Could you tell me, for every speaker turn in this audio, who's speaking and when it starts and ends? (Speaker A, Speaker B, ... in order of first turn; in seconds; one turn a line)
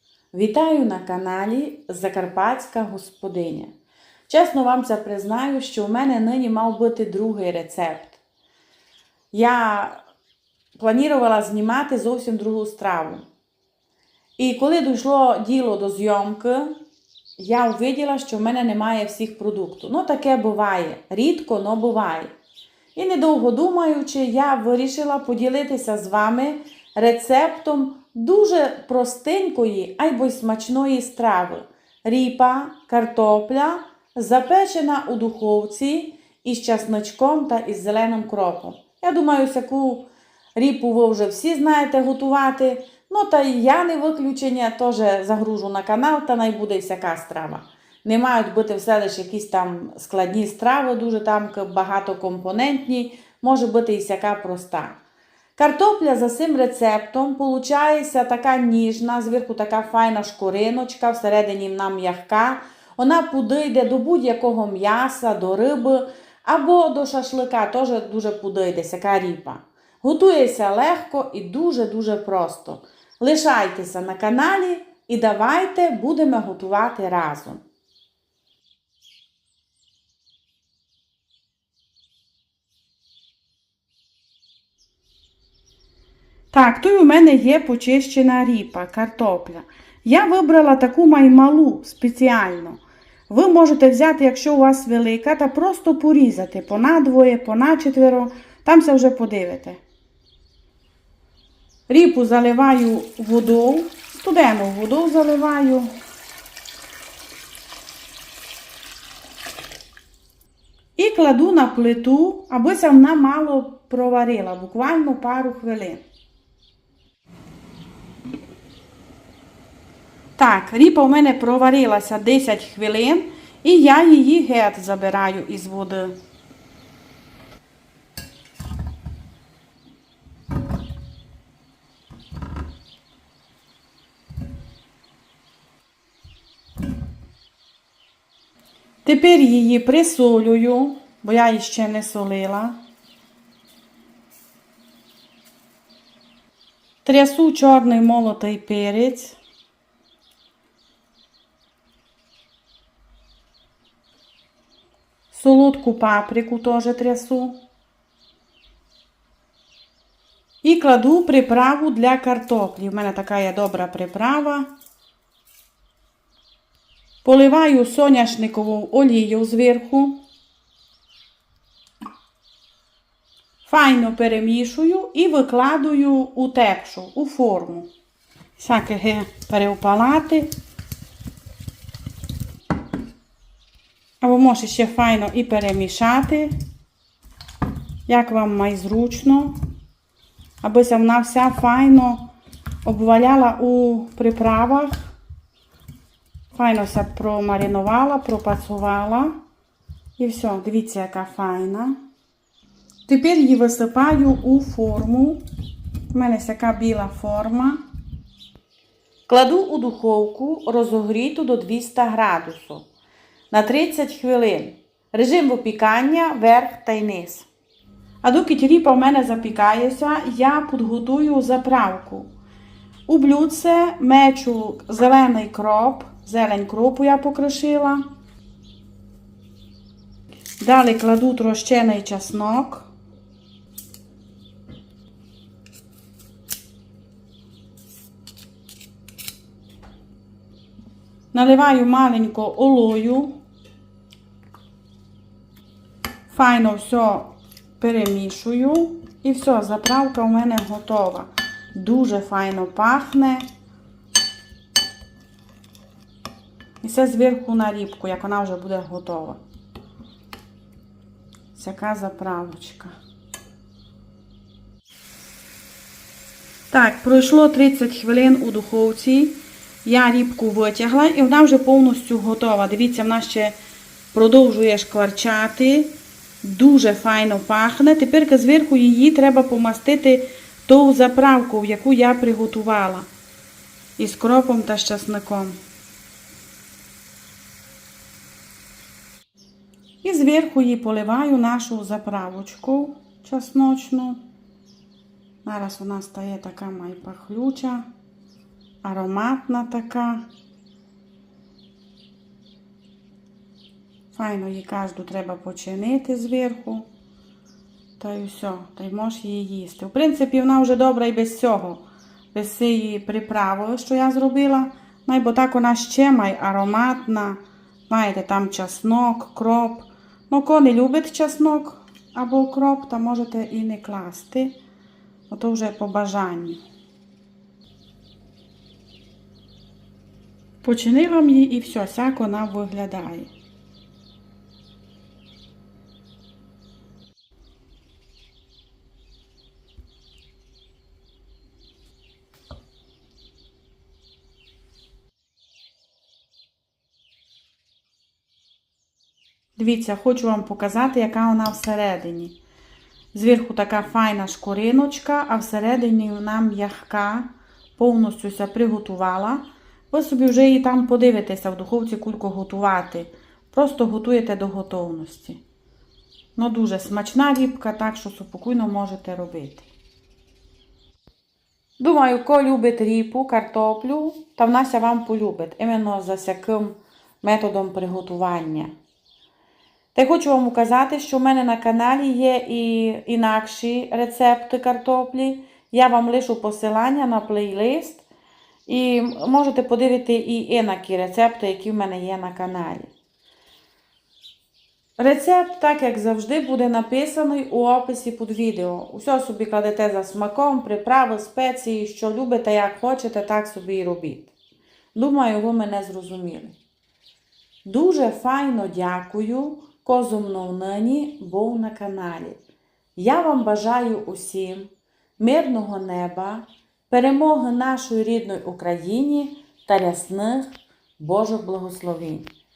Speaker A: 0.3-3.7
Speaker A: 4.3-8.2
Speaker A: 9.3-10.0
Speaker A: 10.8-13.2
Speaker A: 14.4-16.8
Speaker A: 17.4-22.3
Speaker A: 22.9-55.0
Speaker A: 55.6-77.6
Speaker A: 86.5-99.8
Speaker A: 101.9-105.9
Speaker A: 111.0-116.0
Speaker A: 120.4-126.2
Speaker A: 139.0-142.8
Speaker A: 147.0-149.4
Speaker A: 155.3-157.6
Speaker A: 160.6-164.7
Speaker A: 167.2-170.2
Speaker A: 173.6-177.9
Speaker A: 178.6-180.5
Speaker A: 184.2-186.5
Speaker A: 188.1-189.5
Speaker A: 190.6-192.2
Speaker A: 192.8-195.1
Speaker A: 196.5-199.3
Speaker A: 200.2-202.0
Speaker A: 203.1-205.4
Speaker A: 206.1-207.8
Speaker A: 209.3-212.8
Speaker A: 213.5-217.5
Speaker A: 218.2-222.3
Speaker A: 223.1-228.0
Speaker A: 230.6-232.9
Speaker A: 241.3-243.3
Speaker A: 246.3-253.4
Speaker A: 256.8-259.4
Speaker A: 261.5-262.9
Speaker A: 266.7-273.5
Speaker A: 274.1-275.9
Speaker A: 276.4-283.1
Speaker A: 284.0-285.6
Speaker A: 290.0-294.2
Speaker A: 295.4-297.9
Speaker A: 298.8-300.2
Speaker A: 304.1-306.9
Speaker A: 308.0-324.5
Speaker A: 325.3-326.6
Speaker A: 330.6-333.3
Speaker A: 349.6-352.4
Speaker A: 353.1-365.4
Speaker A: 366.4-369.7
Speaker A: 371.8-378.7
Speaker A: 379.9-388.1
Speaker A: 388.7-392.9
Speaker A: 395.0-404.3
Speaker A: 404.9-406.5
Speaker A: 407.6-412.4
Speaker A: 412.9-422.2